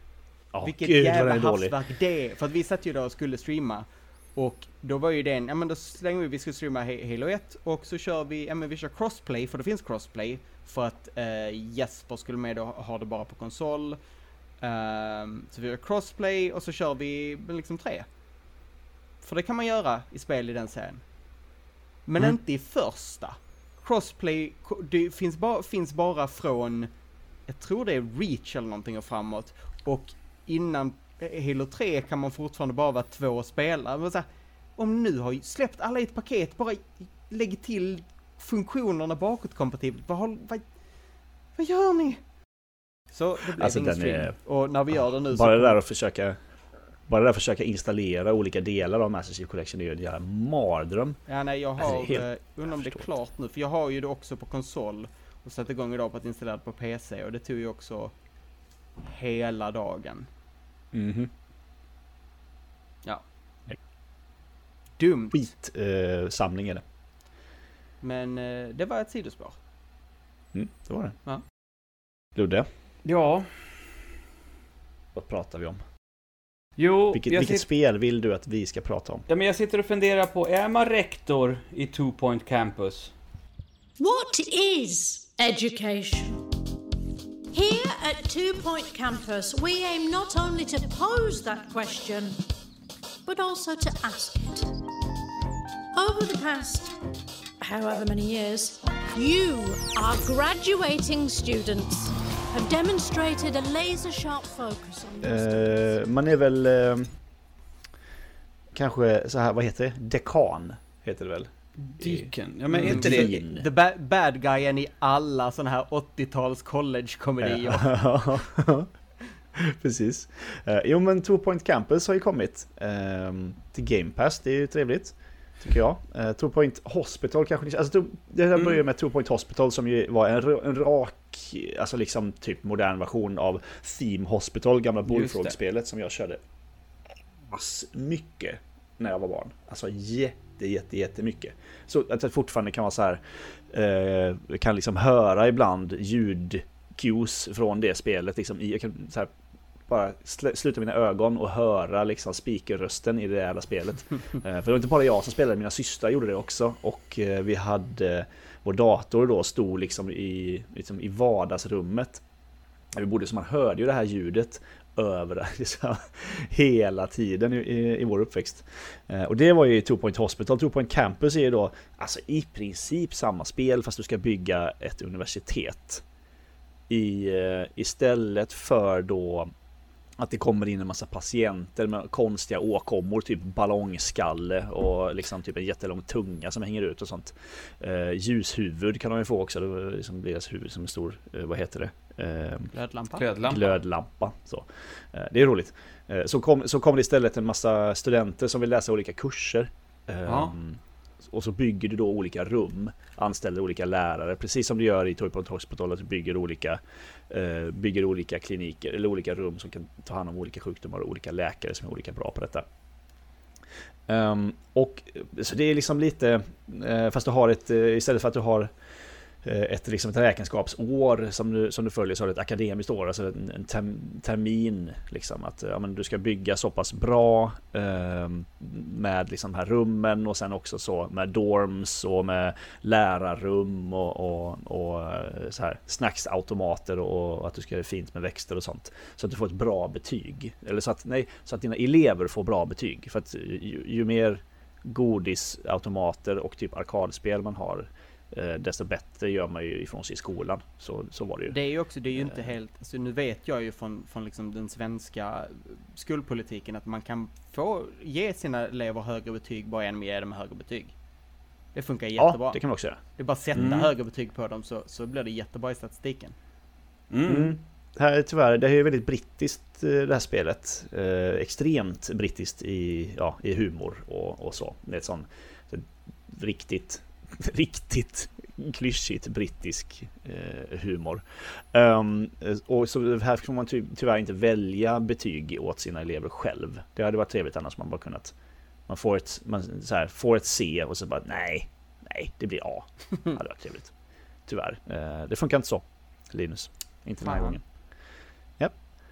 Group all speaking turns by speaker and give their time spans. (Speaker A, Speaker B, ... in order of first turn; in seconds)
Speaker A: 0.5-1.8, 43.5-44.4, 44.9-46.4, 47.1-51.2, 51.8-53.1, 60.9-61.3, 65.3-66.8, 70.5-71.2, 72.3-72.7, 75.1-75.8, 77.1-79.2, 105.2-107.1, 108.7-113.7, 117.4-118.9, 119.5-136.4, 137.5-149.3, 149.9-162.2, 162.9-176.0, 176.9-179.5, 180.2-192.7, 193.4-212.7, 214.1-218.7, 219.4-251.6, 252.1-252.4, 262.2-263.0, 263.5-263.8, 267.2-288.3, 288.9-293.9, 294.4-297.6
Speaker B: 0.6-14.0, 14.6-18.1, 19.2-21.0, 22.1-26.9, 27.5-40.6, 41.5-42.2, 43.1-45.8, 51.3-58.1, 59.0-60.3, 65.0-65.5, 68.0-69.6, 112.7-117.9, 192.7-193.3, 251.5-260.9, 261.7-266.3, 297.2-297.6
Speaker C: 73.0-73.5, 76.8-77.6, 79.3-83.1, 111.8-113.3, 135.1-135.6, 193.2-193.8, 200.2-200.5, 263.6-263.9, 267.1-267.6
Speaker D: 84.0-86.5, 87.5-92.4, 93.2-94.8, 95.9-97.0, 97.6-106.0